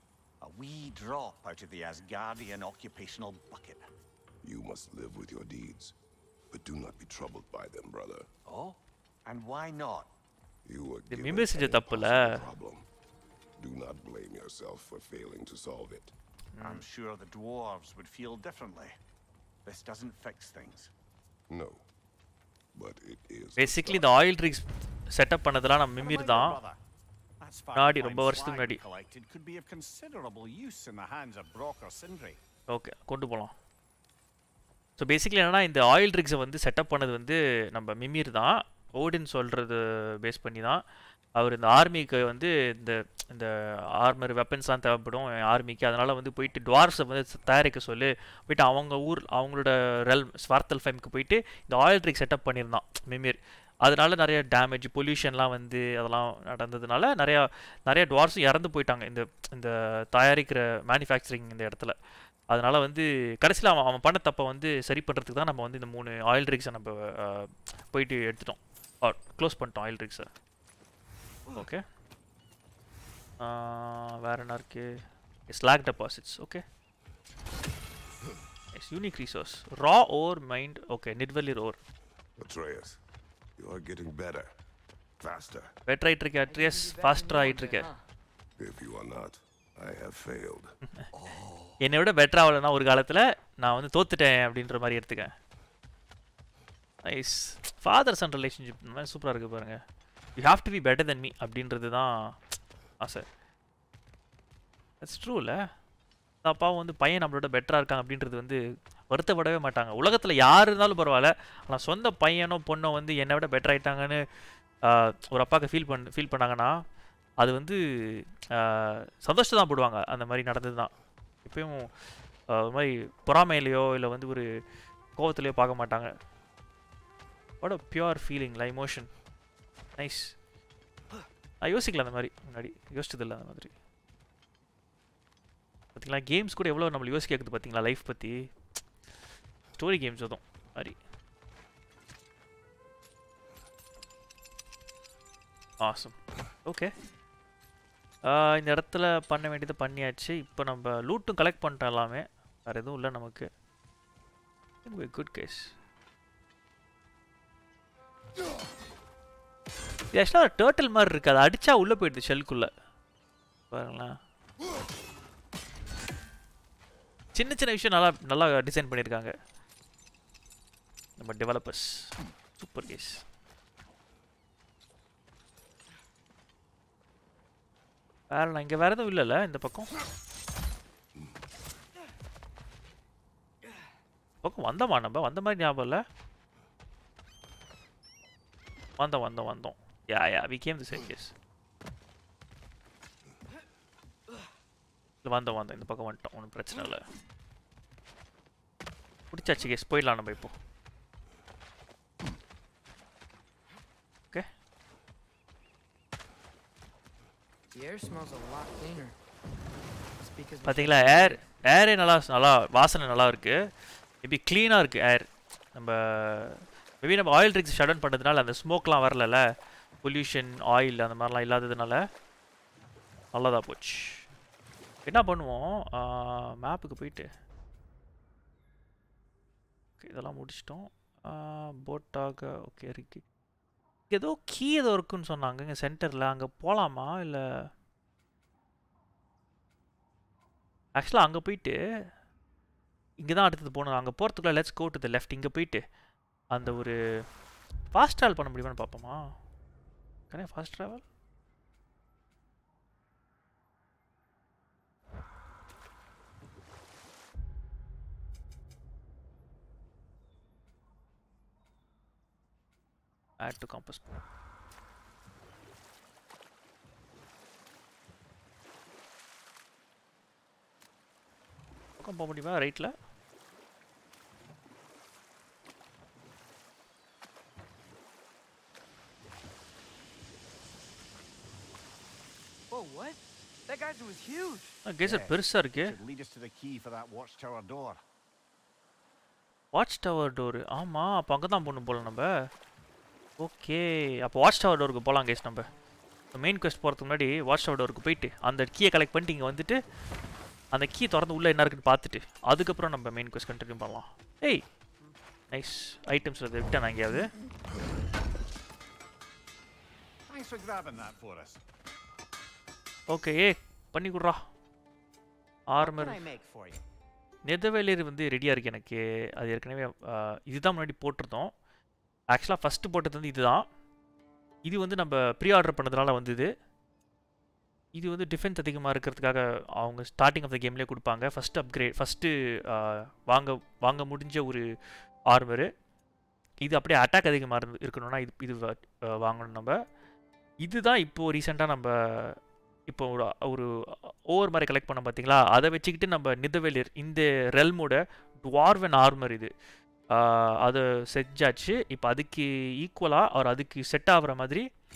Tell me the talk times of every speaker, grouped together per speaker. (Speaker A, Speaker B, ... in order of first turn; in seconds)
Speaker A: 0.4-3.9, 8.4-10.1, 16.6-18.9, 19.6-20.9, 26.0-26.8, 27.4-32.4, 285.0-288.0, 310.3-311.6, 315.8-316.8
Speaker B: 4.4-6.0, 6.5-8.3, 10.7-12.8, 13.6-16.1, 21.5-21.8, 22.7-24.1, 82.4-83.0, 83.6-84.5, 85.2-85.7, 88.6-91.8
Speaker C: 11.1-12.4, 16.5-16.8, 23.6-26.6, 27.7-28.8, 32.7-33.5, 35.0-40.8, 41.3-62.0, 62.5-70.3, 71.5-71.8, 73.4-74.9, 75.5-76.6, 78.7-81.8, 85.8-87.9, 91.8-95.3, 97.0-99.8, 100.4-102.1, 103.0-103.2, 105.0-105.7, 106.4-108.6, 109.1-114.2, 114.8-116.7, 117.4-120.9, 121.4-121.9, 122.5-124.5, 125.2-126.1, 127.6-129.1, 130.0-130.3, 131.6-133.7, 135.9-138.5, 139.8-141.0, 145.8-146.9, 148.2-153.5, 154.8-155.7, 160.1-162.7, 163.7-164.2, 167.3-169.3, 171.2-173.2, 178.3-179.9, 184.4-186.0, 189.0-191.3, 195.2-197.0, 199.3-200.6, 210.6-213.7, 214.2-219.4, 220.0-222.0, 223.3-224.2, 225.1-227.3, 230.0-233.2, 234.1-237.7, 240.9-241.8, 243.2-245.8, 246.5-246.9, 247.9-249.3, 250.3-251.0, 263.4-264.1, 272.0-272.9, 284.9-285.9, 289.7-292.3, 293.4-295.7, 296.3-299.8, 300.7-304.6, 305.5-307.3, 313.1-314.4, 315.7-316.2, 317.4-321.5, 322.3-323.6, 324.6-326.5, 327.9-334.6, 335.3-335.7, 336.6-339.8, 340.6-342.4, 342.9-349.5, 350.1-354.6
Speaker D: 86.5-88.0, 207.7-209.2, 210.2-211.5, 282.7-284.8